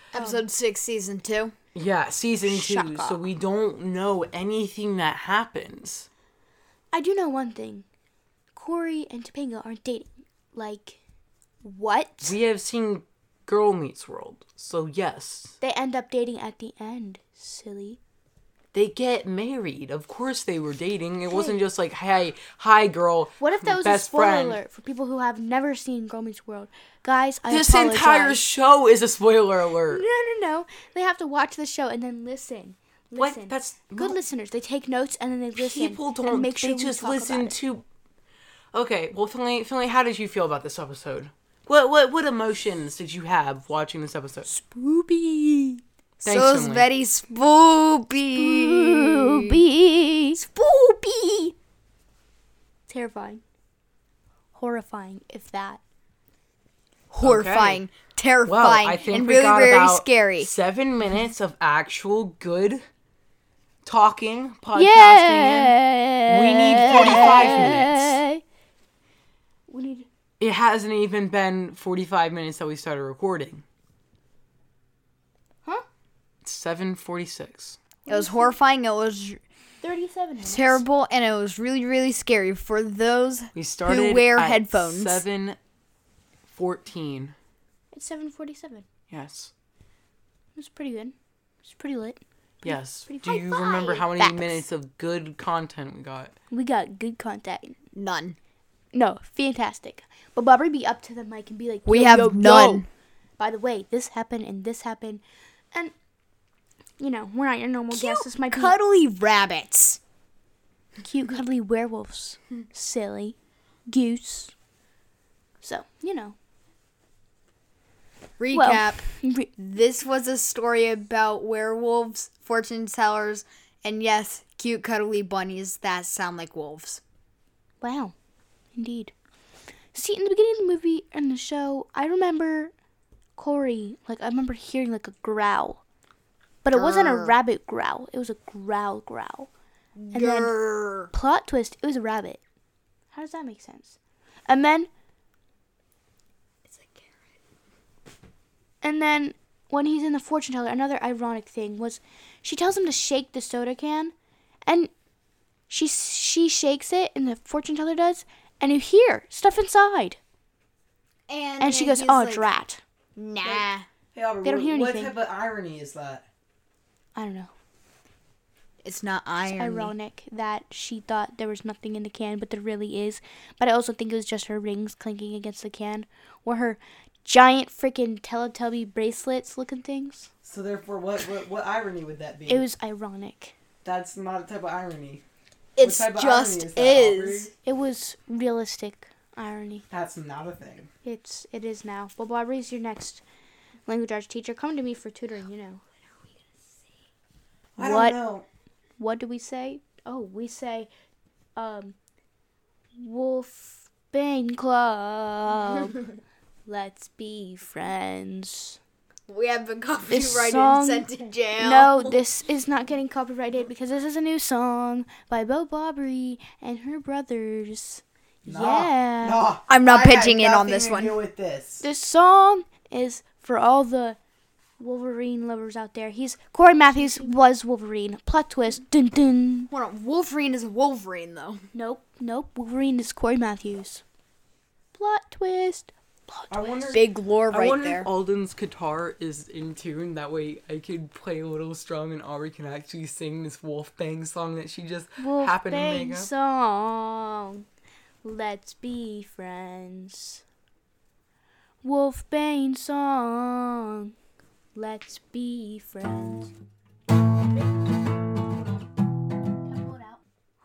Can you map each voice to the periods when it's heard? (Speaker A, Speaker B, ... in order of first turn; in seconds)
Speaker A: 0.1-1.5, 46.2-49.6, 50.4-51.5, 57.1-60.5, 66.9-67.8, 78.1-79.4, 80.4-85.2, 97.9-98.4, 101.9-102.8, 107.9-110.0, 118.4-119.0, 119.6-127.0, 136.7-137.3, 140.0-141.1, 146.7-147.2, 161.3-162.5, 163.2-163.8, 168.8-169.9, 185.8-187.5, 209.3-212.2, 219.7-221.2, 227.0-227.3, 229.7-231.7, 236.9-238.1
Speaker B: 0.1-0.4, 2.5-3.2, 6.9-7.8, 8.5-11.0, 11.6-12.4, 15.6-18.0, 21.3-21.6, 23.4-28.4, 29.9-37.5, 44.5-45.8, 48.3-50.4, 52.9-53.4, 54.5-55.8, 64.7-68.4, 69.7-70.1, 78.0-78.5, 79.8-80.8, 87.9-88.8, 90.5-94.6, 96.5-97.8, 98.9-102.8, 103.4-105.9, 107.0-108.8, 111.0-113.3, 113.9-114.5, 115.6-116.3, 118.5-119.5, 127.8-128.1, 128.7-129.1, 129.9-132.7, 133.4-135.8, 136.6-139.5, 140.1-140.5, 141.1-142.4, 143.1-144.0, 144.5-144.9, 148.8-154.1, 155.7-160.2, 161.6-162.8, 164.4-165.1, 167.2-167.5, 169.4-180.3, 182.5-183.5, 187.6-189.8, 191.0-193.2, 193.9-195.8, 197.8-198.2, 199.0-200.9, 201.6-201.9, 203.0-205.9, 206.7-208.8, 210.1-219.4, 221.8-224.2, 224.8-229.7, 231.7-234.0, 234.9-236.6, 245.2-247.6, 248.2-250.4, 251.8-254.1, 254.7-256.5, 259.6-260.2
Speaker C: 1.7-6.1, 12.2-15.5, 18.7-24.6, 27.5-30.0, 33.2-34.2, 35.6-37.8, 38.7-44.5, 46.2-46.9, 57.2-57.8, 58.5-62.8, 63.8-68.2, 70.4-73.6, 76.4-77.8, 83.5-85.6, 86.5-87.3, 89.1-89.5, 92.6-96.3, 164.1-166.2, 180.4-182.6, 183.8-185.2, 185.8-187.5, 189.9-190.9, 197.8-198.4, 218.4-221.8, 236.5-246.3